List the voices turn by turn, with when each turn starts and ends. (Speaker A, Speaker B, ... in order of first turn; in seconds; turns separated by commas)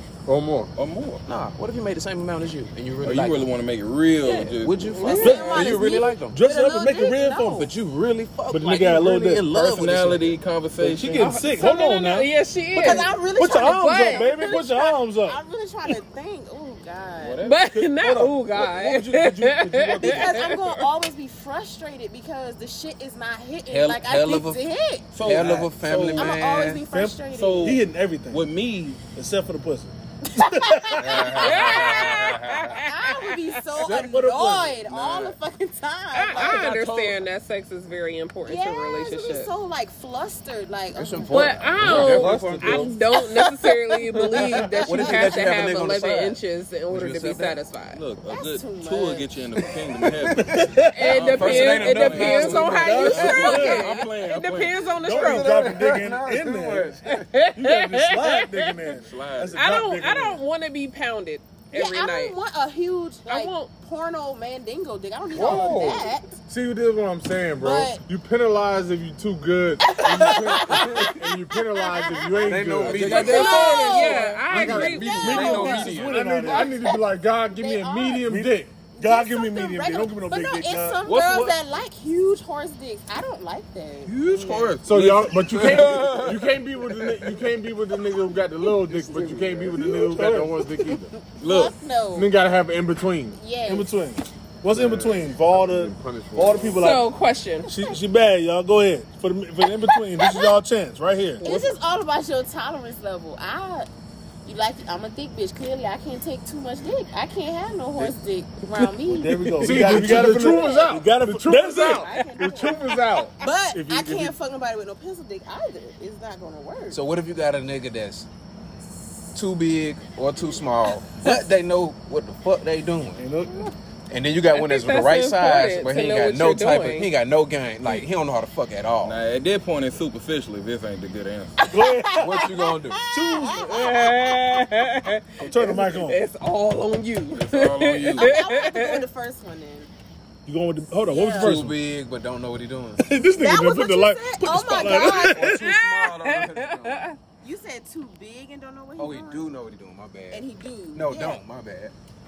Speaker A: 0.3-0.7, Speaker B: 0.8-1.2, Speaker C: 1.3-3.5, Speaker B: 3.0-5.7, Speaker C: 4.2-6.4, Speaker D: 5.0-5.4, Speaker E: 5.0-7.7, Speaker F: 5.2-7.7, Speaker C: 7.6-10.4, Speaker F: 8.5-10.0, Speaker B: 9.5-11.6, Speaker F: 10.8-15.4, Speaker D: 11.3-14.6, Speaker E: 12.8-17.4, Speaker B: 17.2-17.9, Speaker D: 17.4-20.6, Speaker F: 17.7-20.4, Speaker E: 20.0-25.1, Speaker C: 23.7-24.6, Speaker B: 25.1-26.4, Speaker C: 25.2-26.8, Speaker F: 25.4-25.6, Speaker E: 26.2-27.8, Speaker F: 26.9-31.3, Speaker B: 27.3-29.0, Speaker E: 30.3-31.9, Speaker C: 31.0-32.8, Speaker B: 31.4-32.0, Speaker D: 31.4-33.4, Speaker E: 32.8-36.5, Speaker B: 33.8-35.4, Speaker C: 33.9-35.1, Speaker D: 36.1-39.5, Speaker B: 36.3-37.2, Speaker E: 38.5-41.6, Speaker C: 40.9-43.0, Speaker D: 41.3-48.0, Speaker B: 41.8-42.9, Speaker A: 41.9-42.9, Speaker E: 44.5-44.9, Speaker C: 44.8-47.6, Speaker F: 45.0-45.3, Speaker B: 47.9-54.9, Speaker E: 48.3-49.7, Speaker C: 50.1-53.8, Speaker F: 50.5-51.2, Speaker D: 50.9-55.8, Speaker F: 52.7-54.0, Speaker F: 55.0-57.0, Speaker C: 55.1-57.3, Speaker D: 57.1-59.0, Speaker F: 57.5-60.4, Speaker B: 59.1-59.6, Speaker D: 59.5-62.4, Speaker E: 61.7-66.4, Speaker D: 63.3-63.7, Speaker A: 65.3-73.3, Speaker E: 67.6-68.0, Speaker E: 69.8-74.4, Speaker C: 72.5-73.6, Speaker B: 72.9-76.3, Speaker D: 73.2-76.0, Speaker A: 74.5-75.1, Speaker F: 75.1-76.8, Speaker E: 75.1-75.9, Speaker A: 76.0-78.7, Speaker E: 76.5-76.9, Speaker E: 77.5-78.3, Speaker F: 78.2-81.1, Speaker E: 78.9-84.8, Speaker B: 81.0-81.6, Speaker B: 84.0-86.3, Speaker A: 84.8-91.2, Speaker C: 85.6-86.3, Speaker F: 89.5-90.9, Speaker E: 91.4-92.3, Speaker B: 91.4-91.8, Speaker A: 92.1-93.4, Speaker E: 93.4-93.9, Speaker F: 93.7-97.1, Speaker A: 94.7-97.0, Speaker D: 96.8-97.9, Speaker F: 97.7-101.5, Speaker D: 99.9-100.4, Speaker E: 100.2-100.5, Speaker D: 101.4-101.8, Speaker E: 101.4-103.9, Speaker E: 104.5-110.9, Speaker F: 109.1-112.7, Speaker A: 109.2-114.3, Speaker E: 111.5-112.7, Speaker D: 112.1-112.8, Speaker E: 113.4-117.0, Speaker C: 116.9-118.3, Speaker C: 119.3-123.3, Speaker F: 123.2-123.7, Speaker C: 124.1-129.2, Speaker D: 124.5-127.1, Speaker B: 129.0-131.6, Speaker E: 131.7-134.7, Speaker F: 131.7-132.3, Speaker C: 132.2-133.0, Speaker F: 133.1-133.7, Speaker D: 133.5-139.0, Speaker F: 135.4-136.2, Speaker B: 137.3-138.3, Speaker E: 138.1-139.9, Speaker F: 140.5-141.8, Speaker E: 141.1-141.6, Speaker C: 141.4-143.0, Speaker F: 143.0-145.8, Speaker E: 143.2-145.5, Speaker C: 145.0-147.1, Speaker D: 145.3-147.2, Speaker E: 147.4-149.5, Speaker C: 149.0-151.9, Speaker E: 150.3-151.4